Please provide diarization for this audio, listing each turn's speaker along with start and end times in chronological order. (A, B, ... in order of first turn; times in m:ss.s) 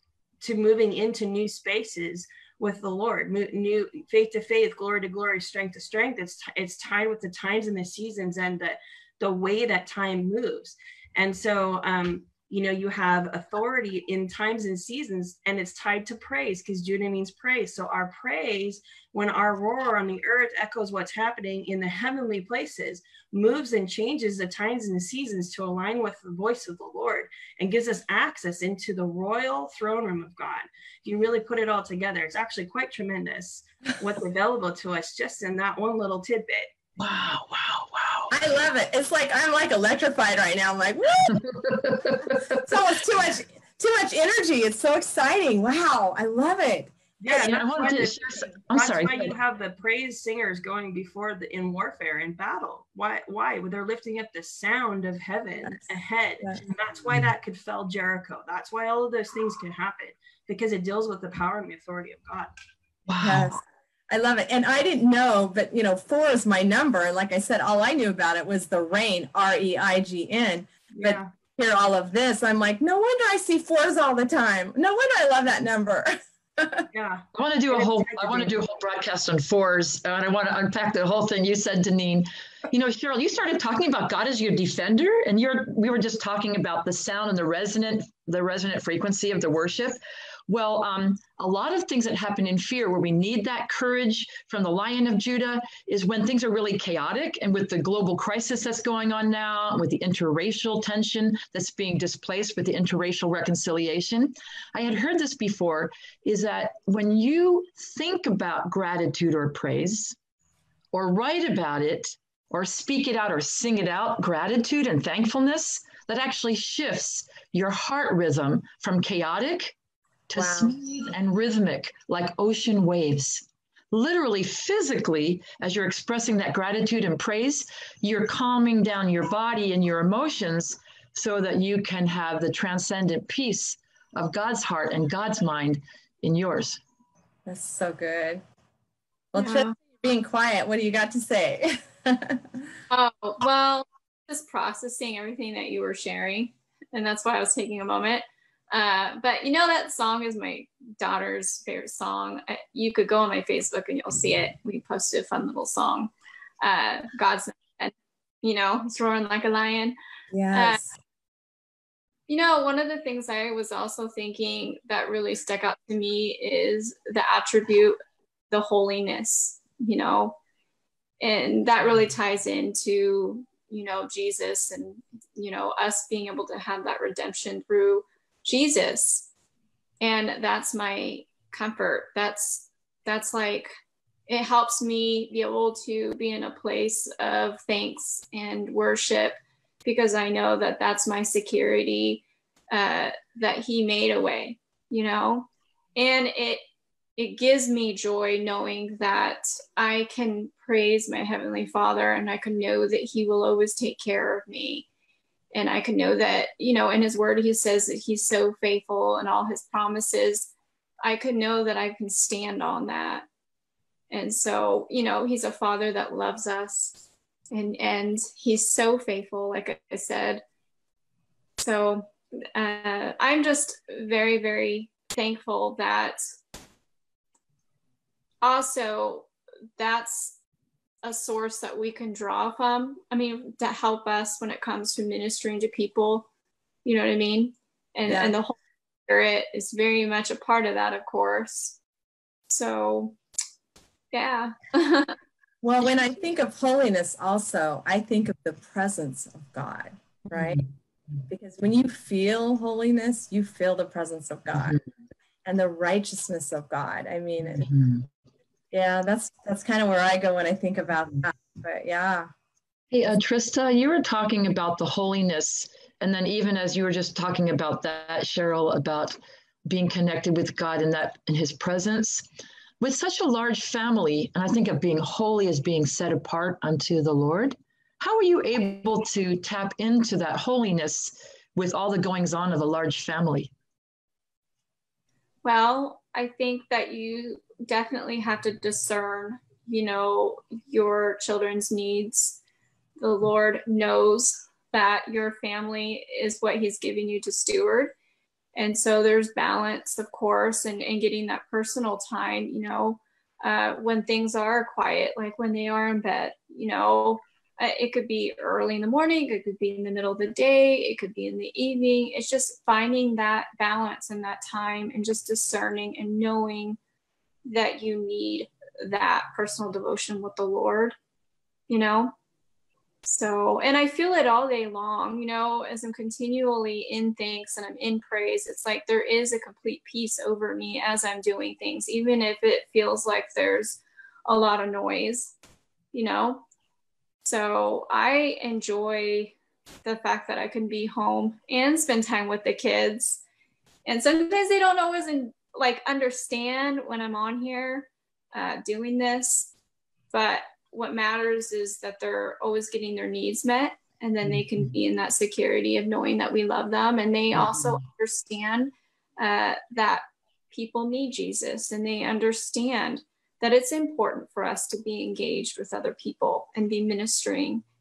0:00.4-0:36.7 A
0:37.0-0:38.3 B
0:38.3-0:41.4 C
0:41.3-0:42.6 B
0:42.2-0:47.6 C
0:47.2-1:02.5 A
0:47.4-0:49.3 B
1:03.1-1:03.5 B
1:03.2-1:16.9 C
1:10.9-1:11.3 A
1:16.9-1:18.6 A
1:17.3-1:30.0 B
1:30.5-1:50.2 B
1:50.9-1:59.7 B
2:00.3-2:16.8 B
2:00.3-2:00.8 C
2:17.4-2:18.4 C
2:19.3-2:22.6 C
2:19.4-2:19.7 D
2:22.9-2:39.9 D
2:40.3-2:41.0 C
2:40.5-2:40.8 D
2:42.3-2:48.0 D
2:48.5-2:50.4 D
2:51.2-2:59.3 D
3:00.0-3:03.7 D
3:04.3-3:16.6 D
3:17.2-3:24.8 D
3:25.5-3:30.5 D
3:31.0-3:33.3 D
3:34.1-3:37.0 D
3:37.5-3:40.4 D
3:41.6-3:46.2 D
3:48.4-3:50.4 D
3:51.0-3:56.3 D
3:56.8-4:01.8 D
3:58.1-3:58.3 C
4:02.5-4:03.2 D
4:04.1-4:05.2 D
4:05.6-4:10.6 C
4:10.3-4:10.6 B
4:11.3-4:14.8 C
4:15.4-4:17.7 C
4:17.6-4:18.1 B
4:18.7-4:22.3 C
4:22.9-4:32.2 B
4:32.8-4:43.5 B
4:45.4-4:52.4 D
4:53.0-4:57.9 D
4:58.5-5:16.8 D
5:17.4-5:21.0 D
5:21.7-5:22.1 D
5:23.0-5:35.3 D
5:35.9-5:36.4 D
5:37.2-5:43.2 D
5:43.8-5:49.5 D
5:50.1-6:07.6 D